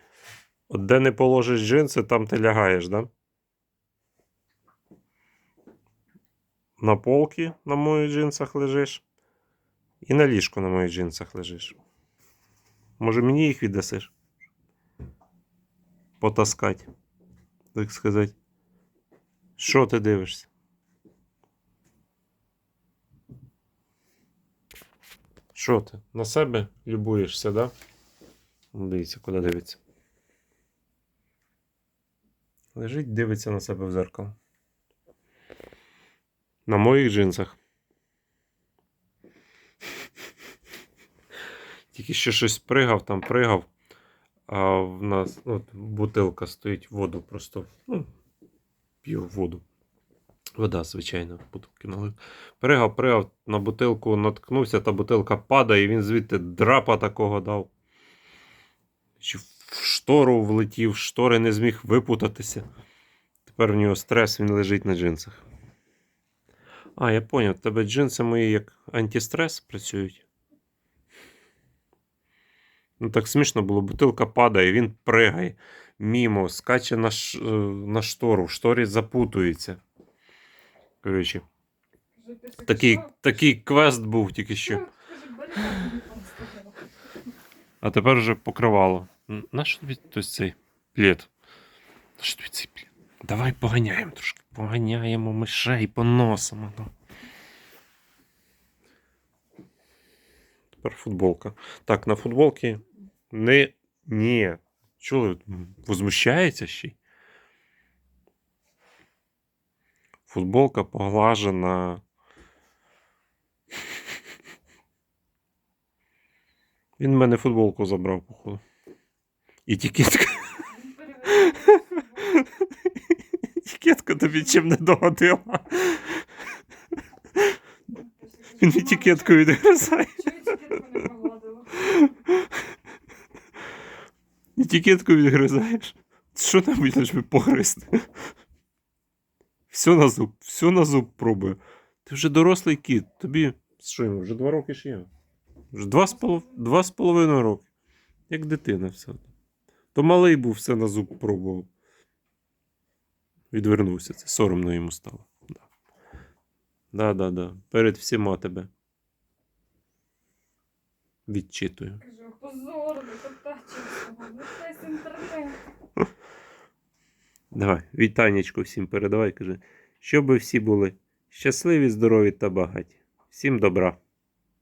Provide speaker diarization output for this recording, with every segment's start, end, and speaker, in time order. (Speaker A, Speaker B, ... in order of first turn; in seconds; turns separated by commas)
Speaker A: 0.7-3.1, Speaker A: 6.8-9.0, Speaker A: 10.0-11.8, Speaker A: 13.0-14.1, Speaker A: 16.2-16.9, Speaker A: 17.7-18.3, Speaker A: 19.6-20.5, Speaker A: 25.5-27.7, Speaker A: 28.7-29.8, Speaker A: 32.7-34.4, Speaker A: 36.7-37.6, Speaker A: 41.9-43.7, Speaker A: 44.5-48.1, Speaker A: 49.0-49.6, Speaker A: 50.6-57.7, Speaker A: 59.2-62.6, Speaker A: 63.5-65.4, Speaker A: 67.0-70.2, Speaker A: 73.0-79.8, Speaker A: 81.0-81.4, Speaker B: 82.2-83.1, Speaker A: 82.6-84.8, Speaker B: 84.7-86.8, Speaker A: 87.8-91.3, Speaker A: 92.2-96.9, Speaker A: 100.8-107.0, Speaker A: 110.3-112.0, Speaker A: 117.0-118.6, Speaker A: 119.7-120.7, Speaker B: 120.7-122.4, Speaker A: 121.2-122.9, Speaker A: 123.4-126.2, Speaker B: 127.9-129.5, Speaker A: 128.5-130.8, Speaker B: 130.2-132.0, Speaker A: 131.8-132.5, Speaker A: 134.6-138.0, Speaker A: 139.7-145.1, Speaker A: 145.7-147.7, Speaker A: 148.3-149.3, Speaker A: 149.9-151.7, Speaker A: 153.5-155.6, Speaker A: 156.9-158.7, Speaker A: 161.3-162.0, Speaker B: 162.0-165.6, Speaker A: 167.5-174.0